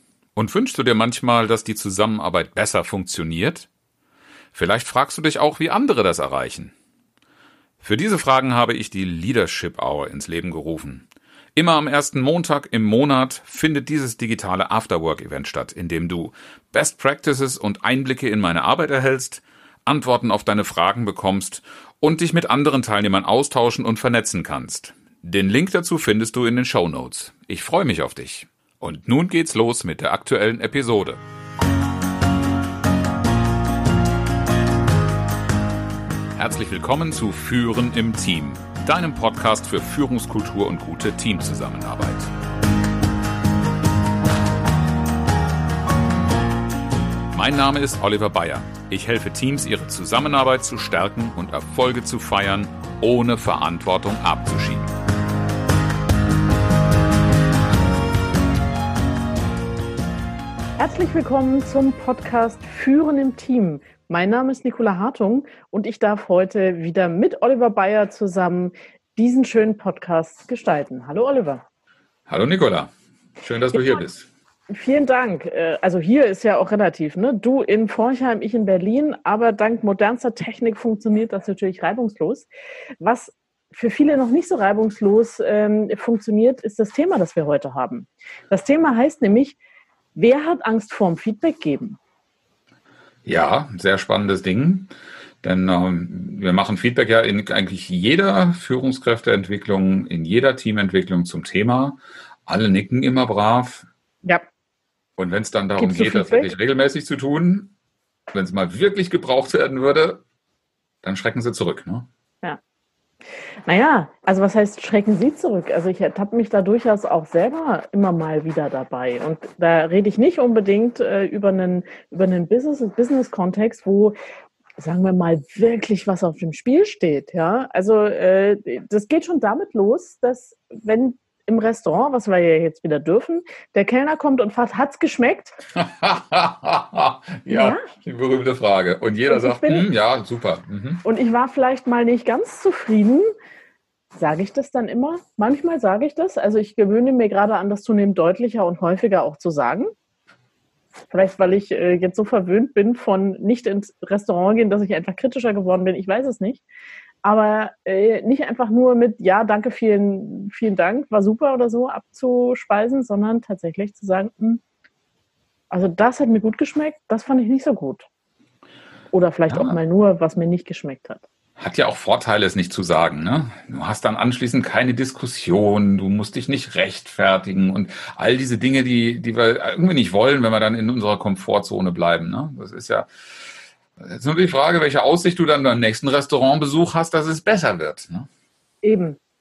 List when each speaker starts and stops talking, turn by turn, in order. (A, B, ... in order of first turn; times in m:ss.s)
0:00.4-0:03.7 A
0:04.5-0:06.7 A
0:07.8-0:11.0 A
0:11.6-0:31.2 A
0:36.4-0:42.3 A
0:47.3-0:54.9 A
1:00.8-1:11.6 B
1:12.3-1:14.3 A
1:14.7-1:22.5 B
1:23.0-1:29.6 B
1:30.1-1:32.0 B
1:33.2-1:43.8 A
1:45.2-1:47.7 A
1:45.8-1:46.5 B
1:48.3-1:50.2 A
1:51.0-1:52.1 A
1:53.6-2:04.2 B
2:04.8-2:15.6 B
2:15.7-2:21.0 A
2:17.5-2:17.8 B
2:19.2-2:19.9 B
2:21.0-2:23.3 B
2:24.2-2:29.9 B
2:31.1-2:36.6 B
2:37.2-2:44.6 B
2:45.7-2:48.1 B
2:49.1-2:51.2 B
2:49.5-2:49.8 A
2:51.6-3:03.1 A
3:04.0-3:08.3 A
3:08.8-3:09.2 B